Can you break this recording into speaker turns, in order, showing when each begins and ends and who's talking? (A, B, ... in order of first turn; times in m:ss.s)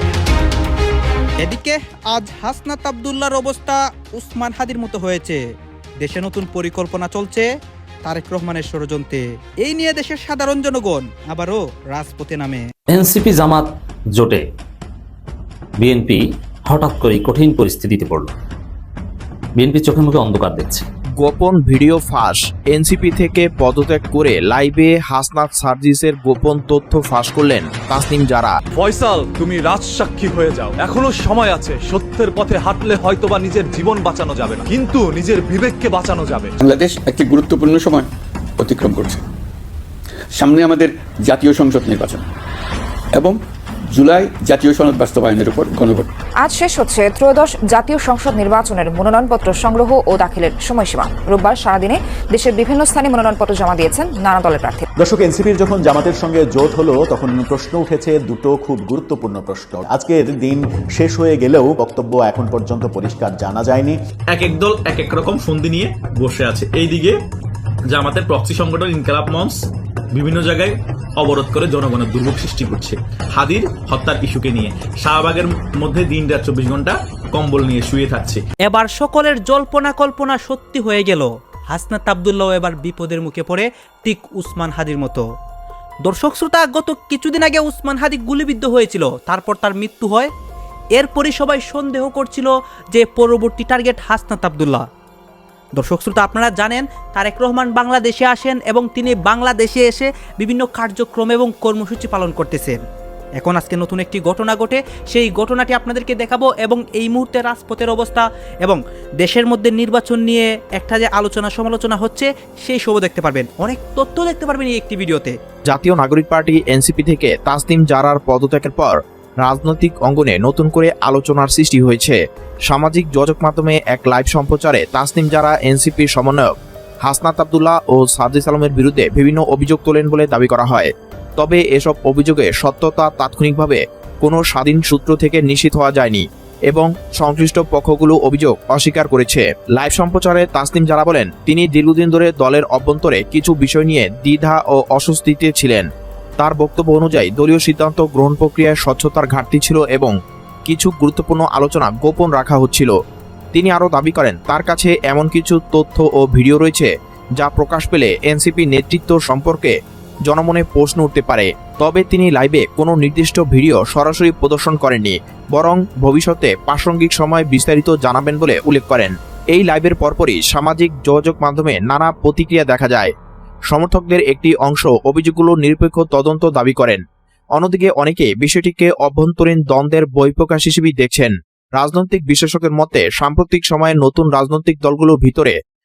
0:01.4-0:05.4 A
0:06.0-0:07.5 A
0:08.0-0:12.7 A
0:12.9-0:14.4 B
0:15.8-0:18.3 B
0:19.6-0:20.9 B
0:21.2-0:28.5 C
0:28.8-0:36.6 D
0:36.6-0:39.2 E
0:40.3-0:42.3 E
0:43.1-0:46.1 E
0:46.4-0:54.9 F
0:55.0-1:04.0 G
1:04.3-1:07.2 H
1:07.9-1:18.4 H
1:18.6-1:25.2 A
1:26.0-1:30.3 A
1:31.0-1:34.8 A
1:35.8-1:42.8 A
1:43.4-1:55.3 A
1:55.7-2:25.9 C
2:26.4-2:30.1 C
2:30.7-2:32.9 C
2:33.5-2:39.7 C
2:40.3-2:53.1 C
2:53.7-2:57.0 C
2:57.6-3:05.6 C